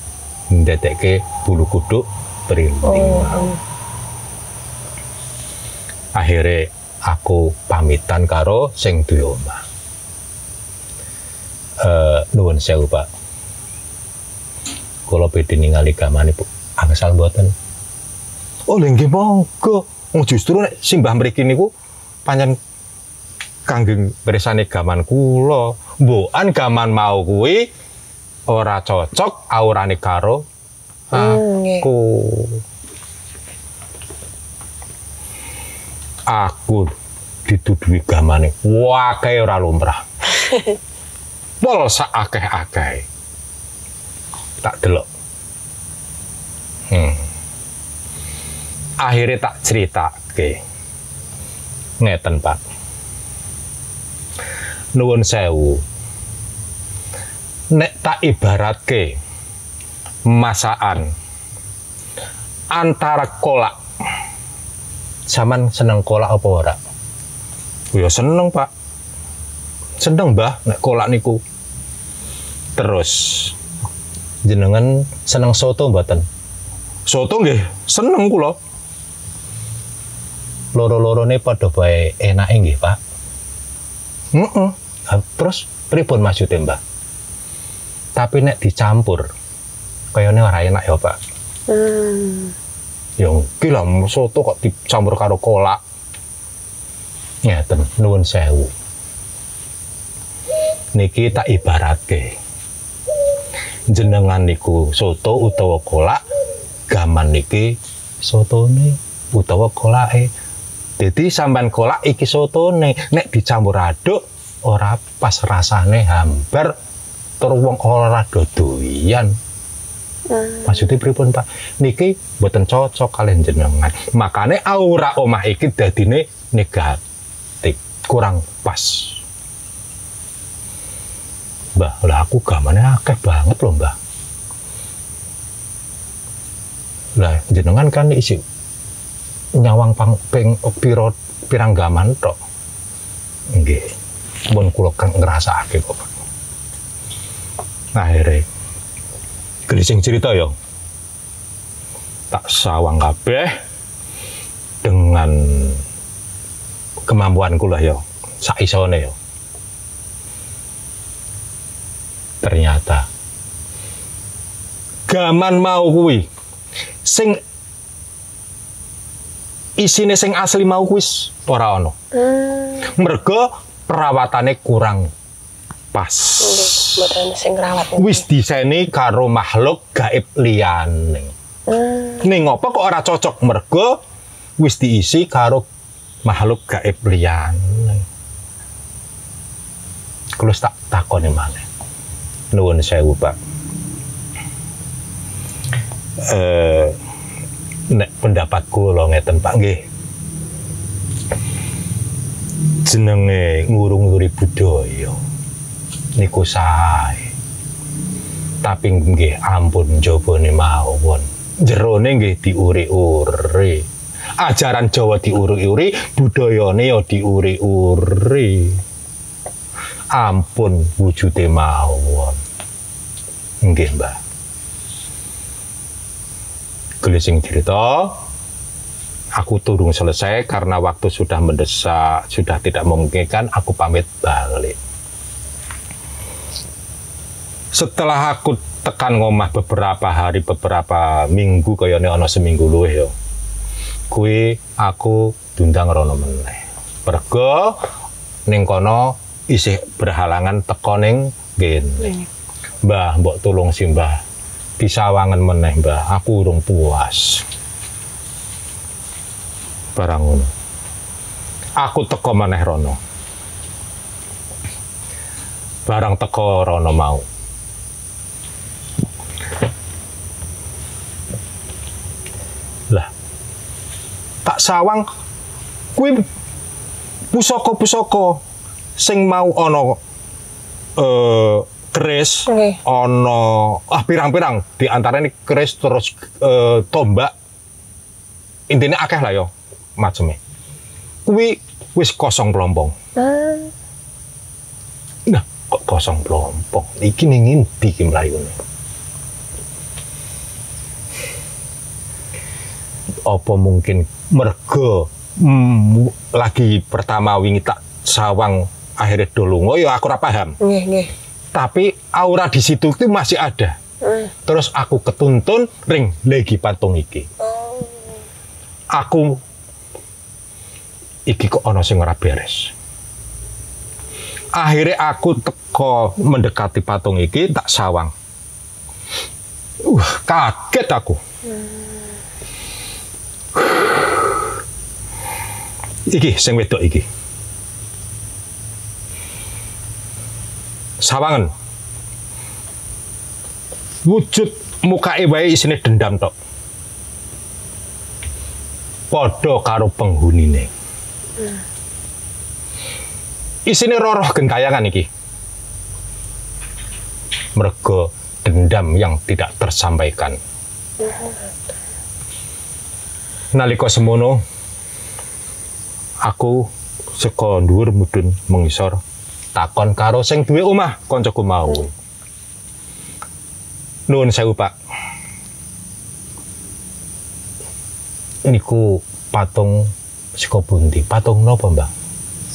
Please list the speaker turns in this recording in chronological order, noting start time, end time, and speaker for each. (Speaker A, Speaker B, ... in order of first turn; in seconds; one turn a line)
Speaker A: 0.5-3.5
Speaker B: 2.8-3.6
Speaker A: 6.2-9.6
Speaker A: 11.8-13.1
Speaker A: 15.1-17.5
Speaker A: 18.7-21.7
Speaker A: 22.2-22.6
Speaker A: 23.7-27.7
Speaker A: 28.5-30.4
Speaker A: 31.1-32.6
Speaker B: 31.1-31.9
Speaker A: 36.3-36.9
Speaker A: 37.5-40.0
Speaker A: 41.6-43.0
Speaker A: 44.6-45.1
Speaker A: 46.9-47.2
Speaker A: 49.0-50.6
Speaker A: 52.0-52.6
Speaker A: 55.0-55.8
Speaker A: 57.7-59.1
Speaker A: 60.3-61.1
Speaker A: 62.7-63.8
Speaker A: 65.3-66.8
Speaker A: 67.9-68.7
Speaker A: 70.0-71.4
Speaker A: 72.8-73.5
Speaker A: 74.5-76.2
Speaker A: 77.1-78.6
Speaker A: 80.8-83.0
Speaker A: 84.3-86.8
Speaker A: 88.2-89.3
Speaker A: 90.1-91.2
Speaker B: 91.7-92.5
Speaker A: 93.2-95.8
Speaker A: 97.5-98.7
Speaker A: 101.0-102.4
Speaker A: 103.9-106.2
Speaker A: 106.9-110.3
Speaker A: 111.0-116.7
Speaker A: 117.4-119.3
Speaker B: 120.3-120.9
Speaker A: 120.7-127.0
Speaker A: 127.6-129.2
Speaker A: 131.8-134.0
Speaker A: 137.2-138.4
Speaker A: 139.6-142.4
Speaker A: 143.5-143.9
Speaker A: 144.5-146.1
Speaker A: 147.9-148.5
Speaker A: 149.7-150.5
Speaker A: 152.3-153.6
Speaker A: 154.8-155.8
Speaker A: 157.1-159.2
Speaker A: 162.4-163.1
Speaker A: 165.1-166.3
Speaker A: 167.0-167.4
Speaker A: 169.8-171.9
Speaker B: 172.1-172.9
Speaker A: 172.8-175.1
Speaker A: 175.9-177.1
Speaker B: 176.4-178.2
Speaker A: 177.9-181.3
Speaker B: 181.7-182.3
Speaker A: 182.2-184.0
Speaker A: 184.6-185.7
Speaker A: 186.2-188.1
Speaker A: 190.4-191.6
Speaker A: 192.5-193.4
Speaker A: 196.2-196.9
Speaker A: 197.9-199.8
Speaker A: 202.8-205.2
Speaker A: 206.2-207.3
Speaker A: 208.6-213.9
Speaker A: 214.4-218.8
Speaker A: 220.1-222.4
Speaker A: 223.6-224.2
Speaker A: 227.0-228.2
Speaker A: 229.4-234.8
Speaker A: 237.7-243.1
Speaker A: 244.1-247.8
Speaker A: 248.5-252.1
Speaker A: 252.8-254.2
Speaker A: 254.8-257.4
Speaker A: 259.9-260.5
Speaker A: 261.8-263.0
Speaker A: 265.9-267.2
Speaker A: 274.4-275.1
Speaker A: 275.9-276.2
Speaker A: 277.3-278.4
Speaker A: 279.0-280.0
Speaker A: 281.0-287.3
Speaker B: 282.5-282.8
Speaker A: 288.7-290.4
Speaker A: 291.3-292.9
Speaker B: 293.2-293.7
Speaker A: 295.3-298.6
Speaker A: 303.3-310.6
Speaker B: 310.6-311.1
Speaker A: 311.6-313.8
Speaker B: 314.0-314.3
Speaker A: 314.5-317.3
Speaker B: 317.4-318.2
Speaker A: 318.9-319.4
Speaker A: 321.3-322.7
Speaker A: 324.6-328.1
Speaker A: 329.9-331.2
Speaker B: 331.5-332.0
Speaker A: 336.1-337.1
Speaker A: 341.0-341.5
Speaker A: 344.1-346.3
Speaker A: 349.1-350.7
Speaker A: 353.7-355.1
Speaker A: 357.6-360.4
Speaker B: 361.0-361.5
Speaker A: 363.5-364.4
Speaker A: 366.2-369.0
Speaker A: 369.6-371.9
Speaker A: 374.1-374.7
Speaker A: 378.4-381.9